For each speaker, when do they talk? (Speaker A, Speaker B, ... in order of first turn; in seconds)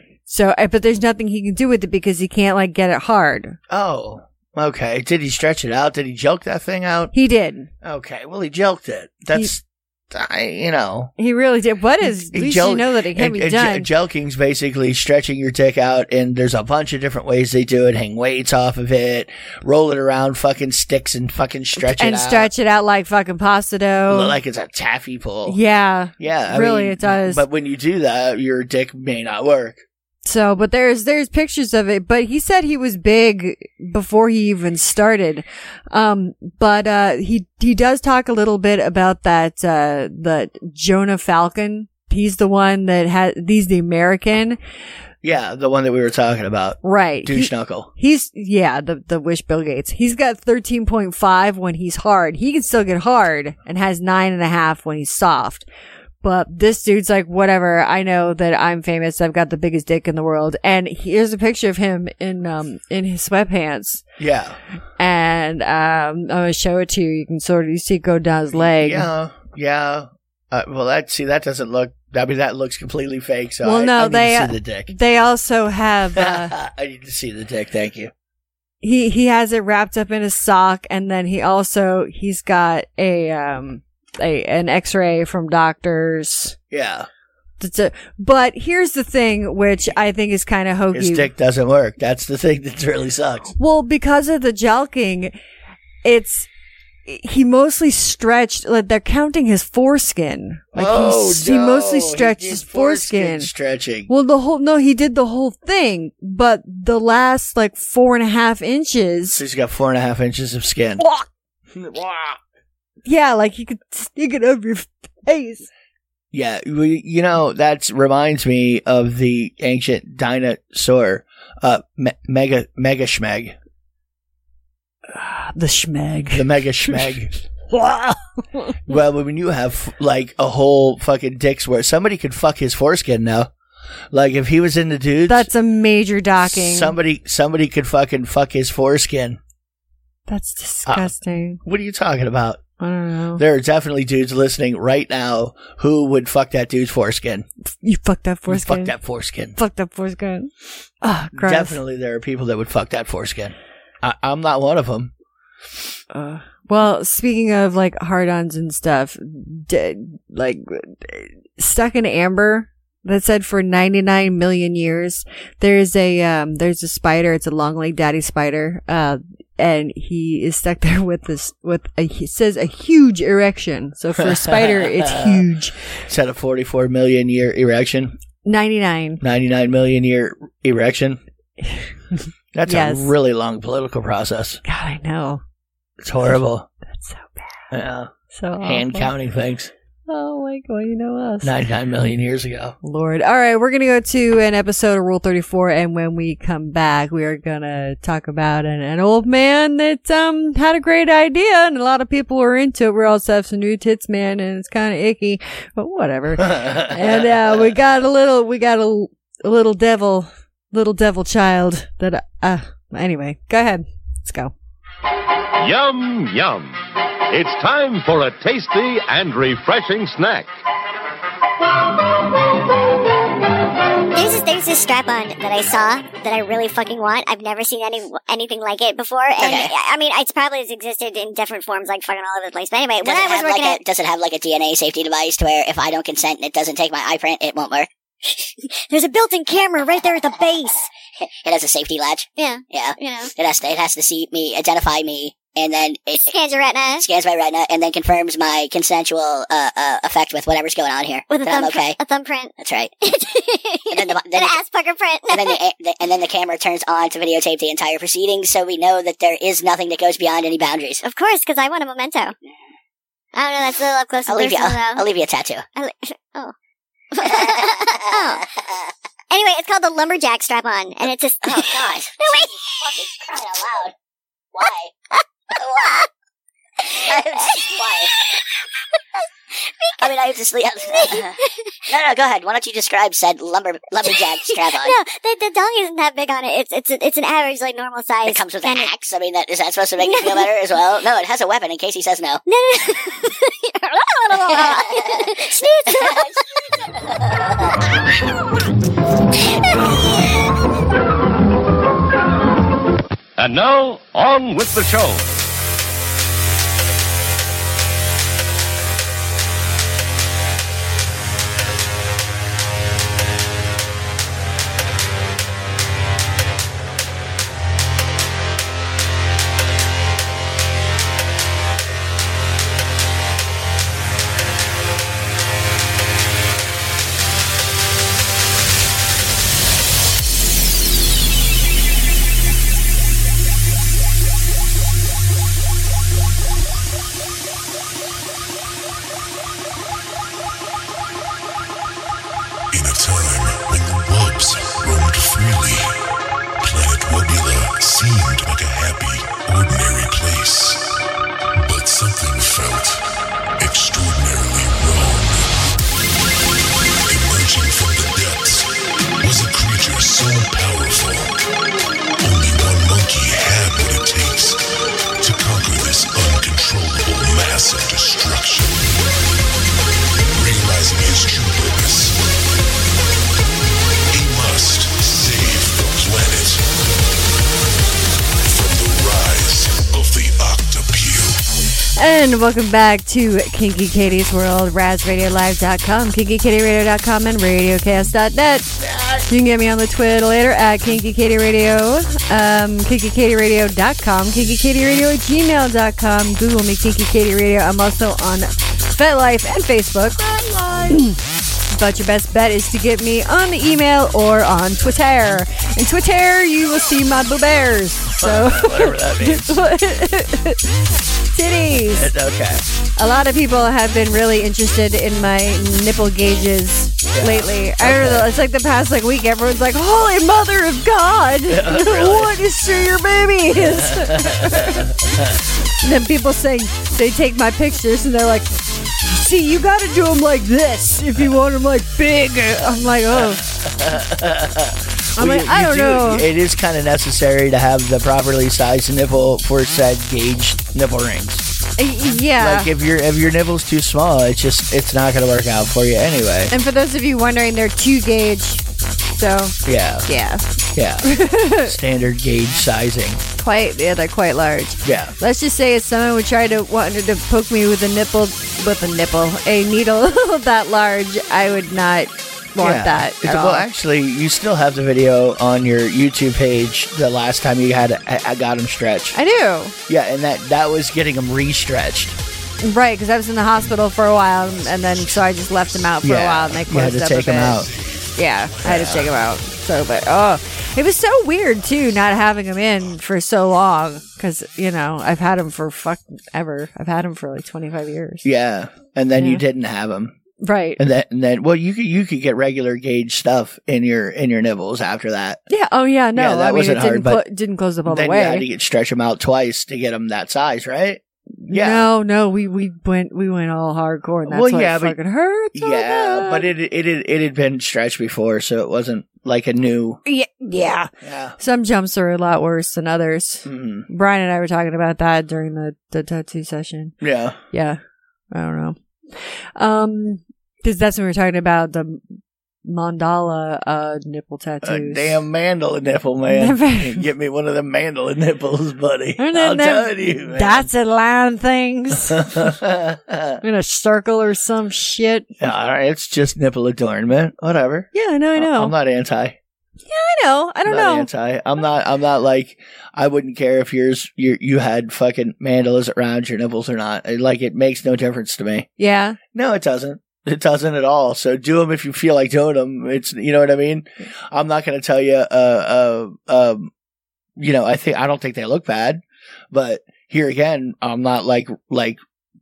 Speaker A: 0.3-3.6, 7.1-7.7, 11.2-13.9, 21.8-24.4, 25.4-27.4, 30.2-44.6, 46.8-55.6, 56.2-64.0, 65.0-69.1, 73.6-76.5, 78.8-86.5, 87.6-91.3, 93.6-95.3, 96.0-96.5, 97.0-103.5, 104.1-109.4, 111.0-111.2, 113.0-115.7, 125.1-127.0, 127.7-128.8, 135.3-136.9, 140.3-141.6, 142.8-143.4, 147.8-148.9, 149.5-150.5, 151.0-151.8, 156.1-175.8, 178.4-179.2, 181.6-183.1, 184.6-185.4, 186.9-187.6, 188.3-189.1, 190.1-191.5, 192.8-214.5, 382.0-388.7, 389.3-401.2, 401.7-410.7, 411.3-412.1, 413.0-424.9, 425.8-428.5, 429.0-433.4, 435.2-436.3, 441.8-442.7, 446.5-451.7, 453.4-463.6, 469.1-469.7, 472.6-488.2, 489.1-489.4, 490.4-490.8, 495.5-498.4, 501.4-506.5, 510.1-517.0, 517.5-517.8, 518.3-525.2, 526.3-527.1, 529.2-532.5, 533.4-535.3, 537.9-538.7, 539.9-541.1, 548.8-549.2
Speaker B: 3.7-7.1, 7.8-11.1, 12.0-22.5, 24.1-25.6, 26.2-29.8, 45.2-47.9, 64.2-64.6, 68.5-74.9, 76.2-78.1, 86.7-87.1, 90.9-93.5, 100.7-104.1, 109.3-111.0, 111.7-112.4, 116.3-123.5, 126.3-127.3, 128.9-133.5, 134.1-135.5, 136.4-139.4, 140.8-141.1, 141.6-142.6, 143.4-147.4, 148.5-149.6, 151.3-155.1, 174.2-175.4, 176.1-178.2, 179.2-181.2, 182.5-184.6, 186.0-186.7, 187.7-189.7, 191.4-192.8, 206.4-207.7, 388.8-389.2, 408.2-409.6, 411.9-412.6, 417.1-418.3, 421.5-422.4, 423.5-425.4, 433.1-441.4, 442.4-446.5, 449.6-450.1, 450.7-453.2, 454.8-455.1, 462.6-469.2, 469.9-472.1, 476.0-477.7, 478.6-479.1, 488.2-490.2, 490.8-495.4, 496.1-497.2, 497.9-501.9, 504.2-505.0, 505.5-510.0, 511.0-511.4, 513.4-513.9, 517.0-517.4, 524.6-530.7, 532.1-533.4, 535.4-539.4, 540.6-548.7, 549.3-556.7, 557.4-562.0
Speaker C: 215.6-216.8, 217.3-220.5, 303.4-305.4
Speaker D: 224.1-233.8, 238.6-240.9, 242.4-243.3, 246.3-247.1, 251.3-255.6, 261.0-262.3, 263.3-265.1, 265.7-266.5, 267.1-268.4, 269.3-273.1, 275.1-276.1, 277.1-278.1, 279.8-280.1, 280.8-281.5, 284.0-288.9, 290.0-290.5, 292.5-296.4
Speaker E: 229.4-229.7, 233.0-237.9, 241.4-246.3, 247.0-252.0, 252.6-252.9, 253.9-254.6, 255.3-261.0, 264.2-265.6, 267.2-268.4, 271.4-273.9, 274.5-274.9, 277.0-278.1, 280.0-281.4, 281.9-284.9, 288.2-292.4, 294.5-296.3
Speaker F: 342.7-345.9, 346.6-351.0, 351.6-353.0, 353.6-355.6, 357.1-361.4, 362.2-364.6, 365.2-368.8, 370.3-372.2, 374.1-376.6, 378.4-381.4, 474.5-475.9, 477.6-479.0